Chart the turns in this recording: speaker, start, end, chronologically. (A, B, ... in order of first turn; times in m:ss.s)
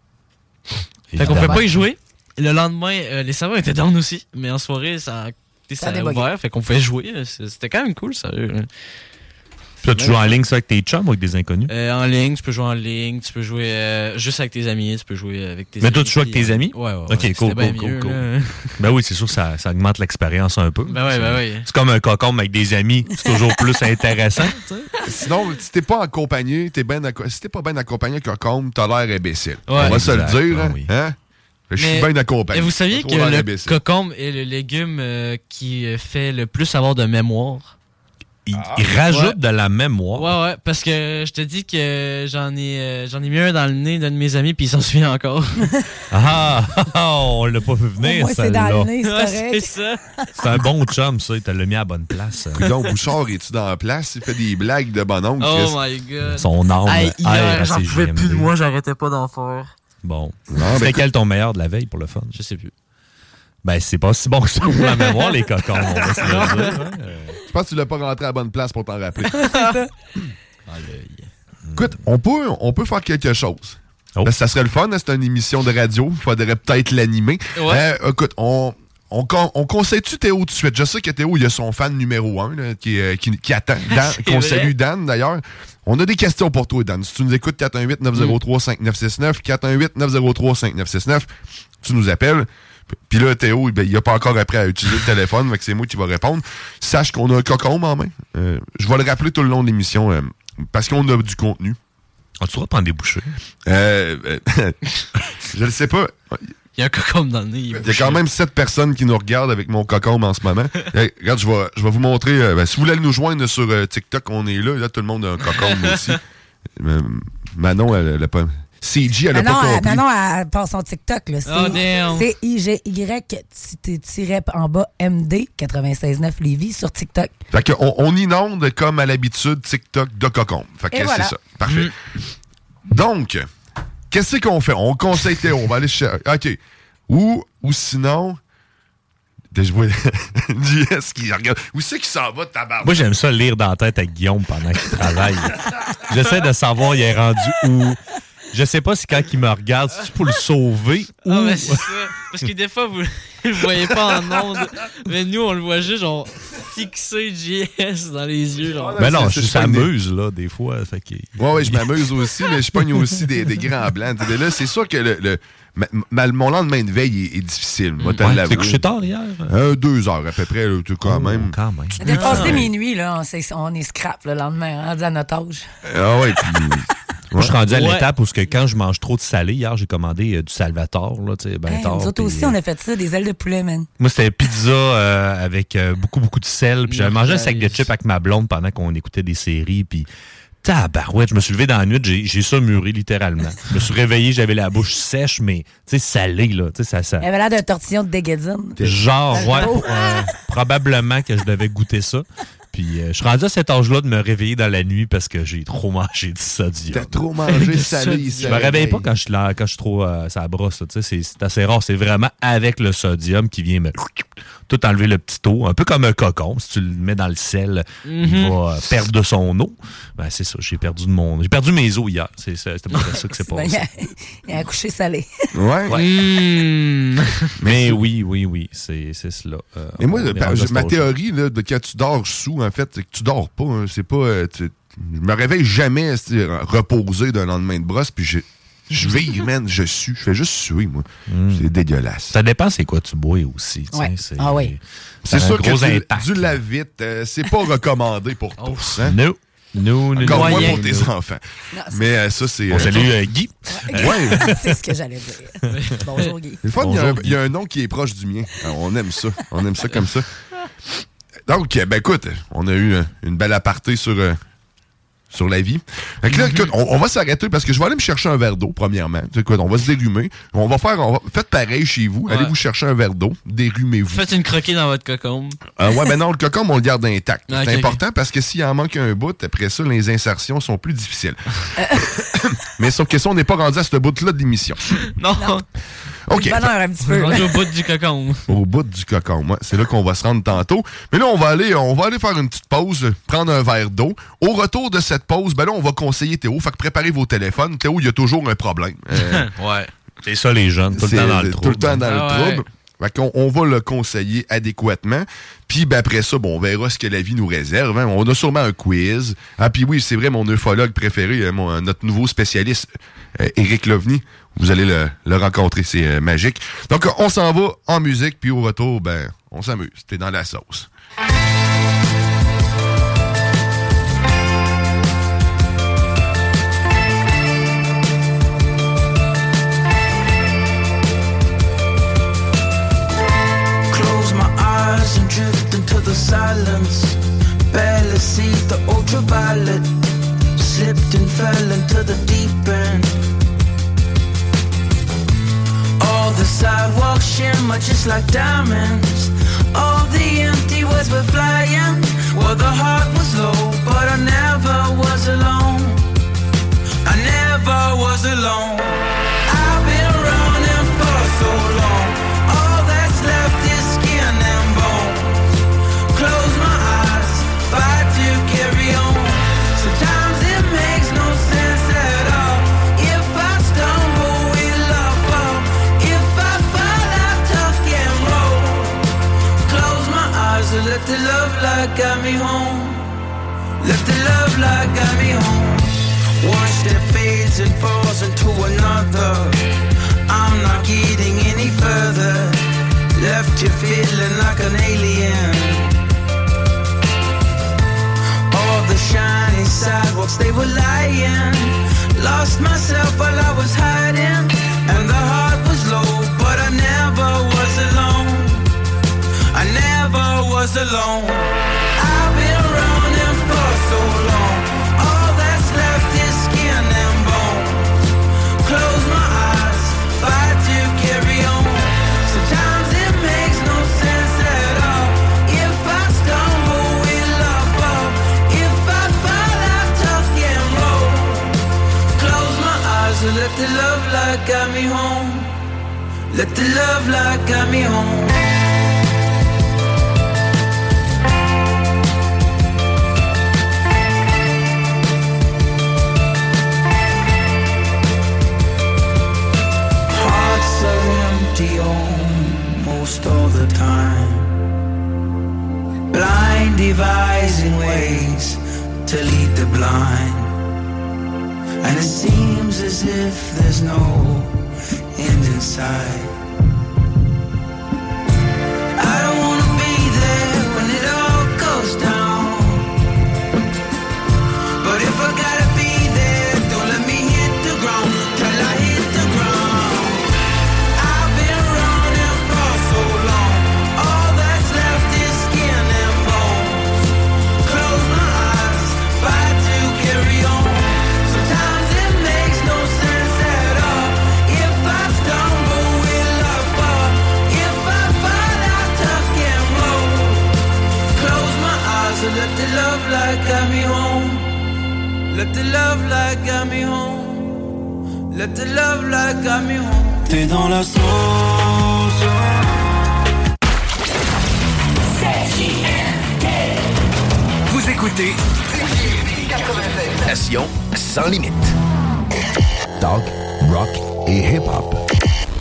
0:01.1-0:01.8 A
0:01.2-0:08.7 B
0:05.8-0:06.2 C
0:09.8-0:11.7 A
0:09.9-0:10.4 B
0:11.7-0:18.7 B
0:15.8-0:18.2 A
0:18.8-0:24.6 A
0:20.9-0:21.6 B
0:24.5-0:24.9 B
0:25.0-0:31.2 D
0:29.7-0:30.0 B
0:29.8-0:30.9 A
0:31.7-0:33.8 D
0:31.8-0:37.7 B
0:38.5-0:40.3 A
0:39.1-0:39.4 B
0:40.2-0:45.7 B
0:46.1-0:48.9 A
0:48.0-0:50.2 C
0:49.0-0:50.0 B
0:50.4-0:52.7 A
0:52.6-0:55.8 D
0:55.4-0:59.7 B
0:56.3-0:58.5 A
1:00.0-1:02.4 A
1:00.5-1:01.0 D
1:02.3-1:02.7 B
1:03.6-1:07.4 A
1:04.7-1:06.8 B
1:07.5-1:09.4 D
1:09.3-1:09.9 C
1:10.7-1:11.3 B
1:11.6-1:11.9 A
1:11.8-1:31.3 D
1:17.6-1:17.8 B
1:23.9-1:24.7 B
1:31.8-1:32.5 D
1:33.1-1:41.8 D
1:42.4-1:43.3 A
1:43.6-1:44.8 D
1:45.4-1:46.5 D
1:46.8-1:48.2 B
1:47.7-1:56.2 D
1:55.5-1:56.2 B
1:56.8-2:00.0 D
1:59.3-2:07.3 C
2:01.4-2:02.3 B
2:07.5-2:11.9 D
2:10.9-2:11.3 C
2:11.6-2:11.9 B
2:12.9-2:13.4 D
2:14.1-2:18.4 D
2:19.5-2:23.0 D
2:22.8-2:28.0 A
2:28.5-2:31.9 A
2:31.3-2:39.0 B
2:38.8-2:39.9 D
2:39.0-2:41.9 A
2:41.4-2:48.8 D
2:48.2-2:49.5 A
2:49.5-2:51.6 D
2:51.0-2:52.7 A
2:52.0-2:55.6 C
2:52.0-2:52.6 B
2:52.2-2:52.6 D
2:55.8-2:57.5 D
2:57.4-3:02.6 A
2:57.7-2:58.1 B
3:01.7-3:03.9 C
3:04.0-3:10.1 A
3:06.9-3:07.9 B
3:10.6-3:17.3 A
3:17.2-3:18.8 C
3:18.8-3:27.2 A
3:19.3-3:20.0 C
3:26.9-3:29.1 D
3:27.5-3:28.7 B
3:28.4-3:34.1 A
3:34.7-3:43.8 A
3:38.0-3:38.6 B
3:43.4-3:45.3 C
3:45.5-3:46.0 D
3:45.9-3:47.5 B
3:47.6-3:48.0 D
3:47.6-3:51.1 A
3:50.0-4:02.4 D
4:01.3-4:01.6 A
4:02.3-4:06.6 A
4:03.9-4:04.7 C
4:05.2-4:09.2 D
4:08.6-4:09.0 B
4:09.0-4:11.1 A
4:10.2-4:13.1 D
4:10.2-4:10.8 B
4:11.7-4:12.1 C
4:12.7-4:14.6 A
4:13.7-4:16.6 C
4:13.9-4:14.5 D
4:15.7-4:16.3 B
4:16.6-4:20.3 D
4:16.8-4:17.4 A
4:21.5-4:24.4 D
4:25.3-4:34.2 D
4:26.3-4:26.7 B
4:32.3-4:32.5 B
4:34.1-4:35.6 B
4:35.8-4:41.4 D
4:37.5-4:38.0 B
4:41.8-4:42.0 C
4:42.0-4:44.8 D
4:45.2-4:45.6 B
4:46.3-4:46.7 D
4:46.3-4:47.6 C
4:47.0-4:48.5 B
4:48.5-4:59.5 D
4:59.2-4:59.9 B
5:00.2-5:02.0 A
5:00.9-5:20.9 D
5:02.0-5:02.6 B
5:33.9-5:40.0 E
5:40.5-5:43.1 E
5:46.0-5:56.0 E
5:57.0-6:05.6 E
6:06.1-6:19.0 E
6:19.6-6:23.1 E
6:23.8-6:29.6 E
6:30.3-6:32.6 E
6:33.1-6:36.0 E
6:38.5-6:48.7 E
6:49.5-6:58.0 E
6:58.6-7:11.6 E
7:12.1-7:15.5 E
7:16.3-7:18.4 E
7:30.1-7:34.5 E
7:36.1-7:40.5 E
7:41.8-7:44.5 E
7:45.1-7:46.3 E
7:49.0-7:52.9 E
7:54.8-8:00.3 E
8:00.9-8:07.1 E
8:07.6-8:20.5 E
8:21.1-8:24.5 E
8:25.3-8:27.6 E
8:28.3-8:30.5 E
8:37.7-8:38.4 F
8:38.9-8:41.7 F
8:43.0-8:45.0 G